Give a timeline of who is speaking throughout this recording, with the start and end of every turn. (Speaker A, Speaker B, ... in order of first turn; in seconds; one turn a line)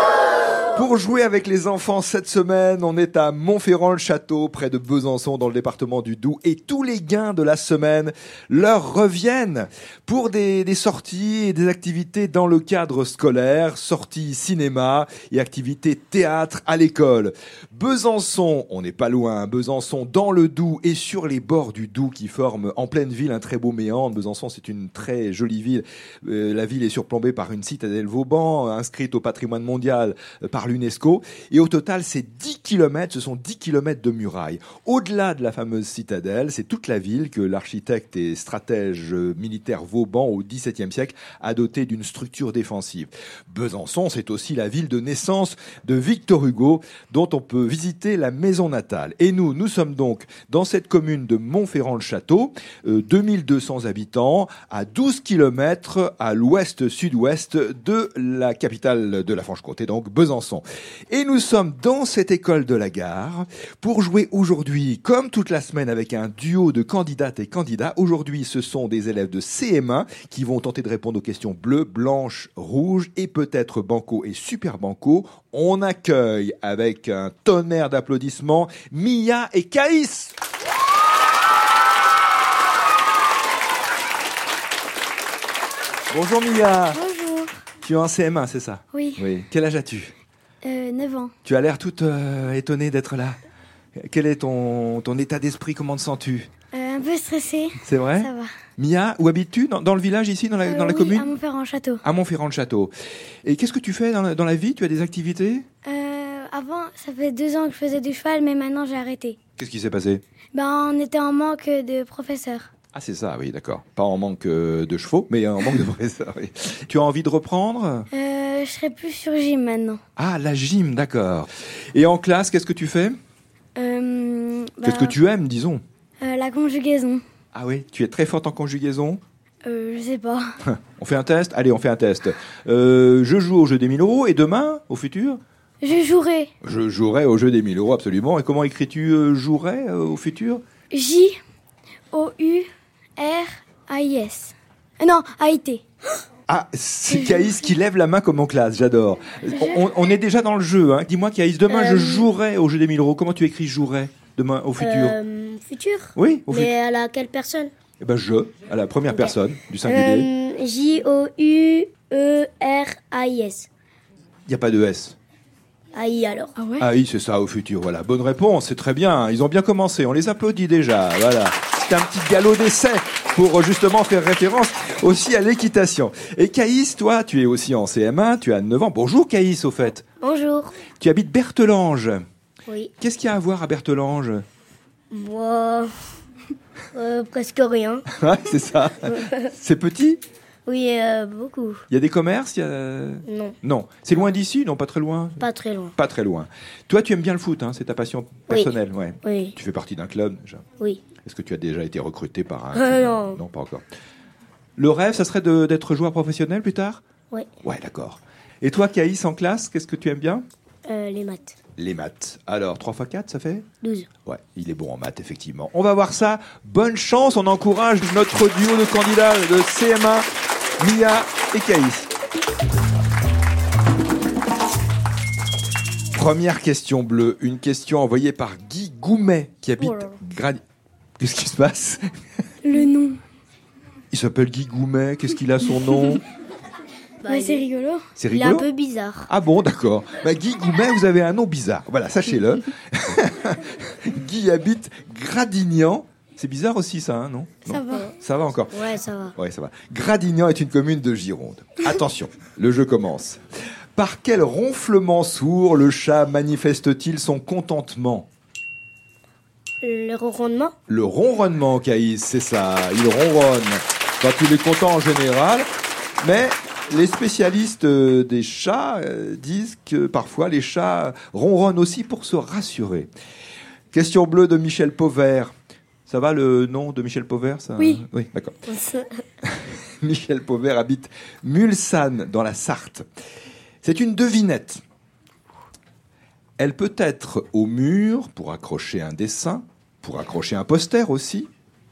Speaker A: 0.7-80.3
Speaker A: 86.1-87.0
Speaker B: 86.9-87.5
Speaker A: 87.8-90.1
Speaker B: 88.9-89.2
Speaker B: 90.6-91.3
Speaker A: 91.5-93.4
Speaker A: 94.0-96.5
Speaker B: 96.7-98.5
Speaker A: 97.8-101.3
Speaker B: 100.7-102.0
Speaker A: 102.0-102.9
Speaker A: 103.5-105.7
Speaker B: 105.8-109.4
Speaker A: 109.6-110.2
Speaker B: 110.5-112.7
Speaker A: 112.9-118.1
Speaker B: 118.1-120.0
Speaker A: 120.2-123.2
Speaker B: 123.8-125.2
Speaker A: 124.8-125.8
Speaker B: 126.2-127.2
Speaker A: 127.5-129.2
Speaker B: 129.7-130.5
Speaker A: 130.6-135.4
Speaker B: 135.8-136.5
Speaker A: 136.6-140.6
Speaker B: 140.9-141.4
Speaker B: 142.1-142.7
Speaker B: 143.2-145.8
Speaker A: 146.5-155.2
Speaker C: 151.7-152.3
Speaker C: 154.8-157.7
Speaker A: 156.2-156.7
Speaker A: 158.0-160.3
Speaker C: 159.1-163.7
Speaker A: 164.5-165.2
Speaker C: 165.9-166.6
Speaker B: 166.6-166.9
Speaker A: 166.8-180.0
Speaker C: 180.2-180.8
Speaker A: 181.0-182.2
Speaker C: 182.7-182.9
Speaker A: 183.0-184.4
Speaker C: 185.1-185.9
Speaker C: 186.9-188.1
Speaker A: 188.1-190.2
Speaker C: 189.1-189.5
Speaker C: 190.7-191.8
Speaker A: 191.9-195.4
Speaker C: 193.3-193.6
Speaker C: 195.4-195.9
Speaker A: 196.0-200.6
Speaker C: 198.5-199.6
Speaker A: 201.2-203.8
Speaker C: 202.7-203.4
Speaker A: 204.8-207.0
Speaker A: 207.6-210.4
Speaker C: 210.9-211.6
Speaker A: 211.8-213.7
Speaker C: 213.8-214.1
Speaker A: 214.3-220.3
Speaker A: 220.8-222.1
Speaker A: 226.1-230.6
Speaker C: 229.8-230.2
Speaker A: 231.2-232.0
Speaker B: 232.6-233.2
Speaker A: 234.1-236.2
Speaker C: 237.2-237.7
Speaker B: 237.3-238.0
Speaker A: 238.2-238.7
Speaker C: 238.3-239.3
Speaker A: 239.3-253.4
Speaker B: 247.7-248.1
Speaker C: 248.7-249.4
Speaker A: 254.0-258.3
Speaker C: 259.8-260.7
Speaker A: 260.9-265.7
Speaker A: 266.2-273.1
Speaker A: 273.9-275.5
Speaker A: 276.1-278.7
Speaker C: 278.7-279.1
Speaker A: 279.4-283.1
Speaker A: 283.8-284.8
Speaker A: 286.6-291.5